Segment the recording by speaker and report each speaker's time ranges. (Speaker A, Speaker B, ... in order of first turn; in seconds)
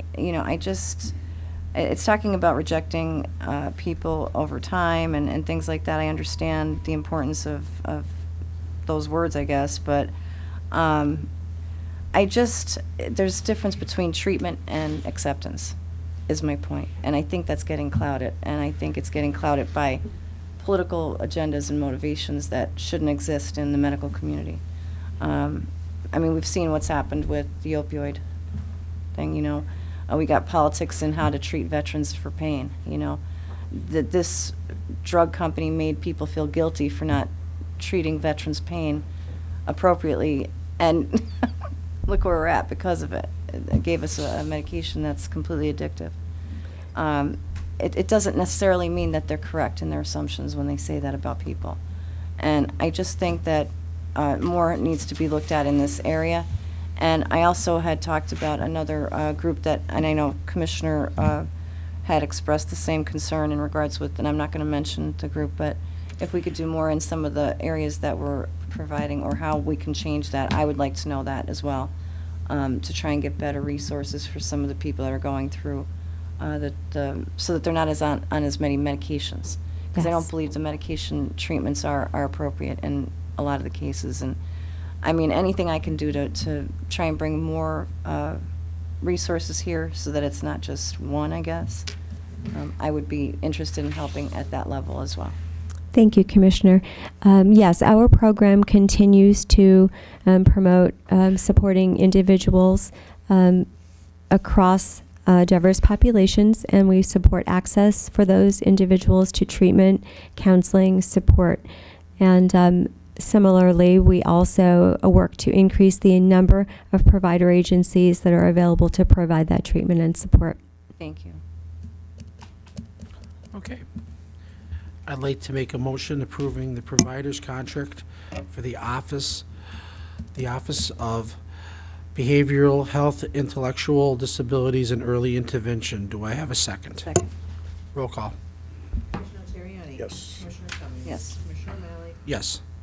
Speaker A: 0.1-1.1, 1.7-8.1, 8.9-10.1, 10.7-11.3, 12.1-15.7, 16.3-20.0, 20.6-24.6, 25.2-28.2, 29.1-33.2, 33.7-39.0, 39.7-41.5, 42.0-46.1, 47.0-51.8, 52.4-56.5, 57.0-61.5, 62.0-71.9, 72.5-75.9, 76.4-84.4, 85.0-88.4, 89.0-91.9, 92.5-95.3, 121.0-121.4, 137.0-137.3, 141.1-141.4
Speaker B: 80.0-80.2, 95.9-103.7, 104.3-111.6, 112.2-120.6
Speaker C: 123.5-123.8, 125.1-129.4, 130.3-131.4, 132.2-137.1, 137.9-138.3, 142.2-142.6
Speaker D: 139.1-142.2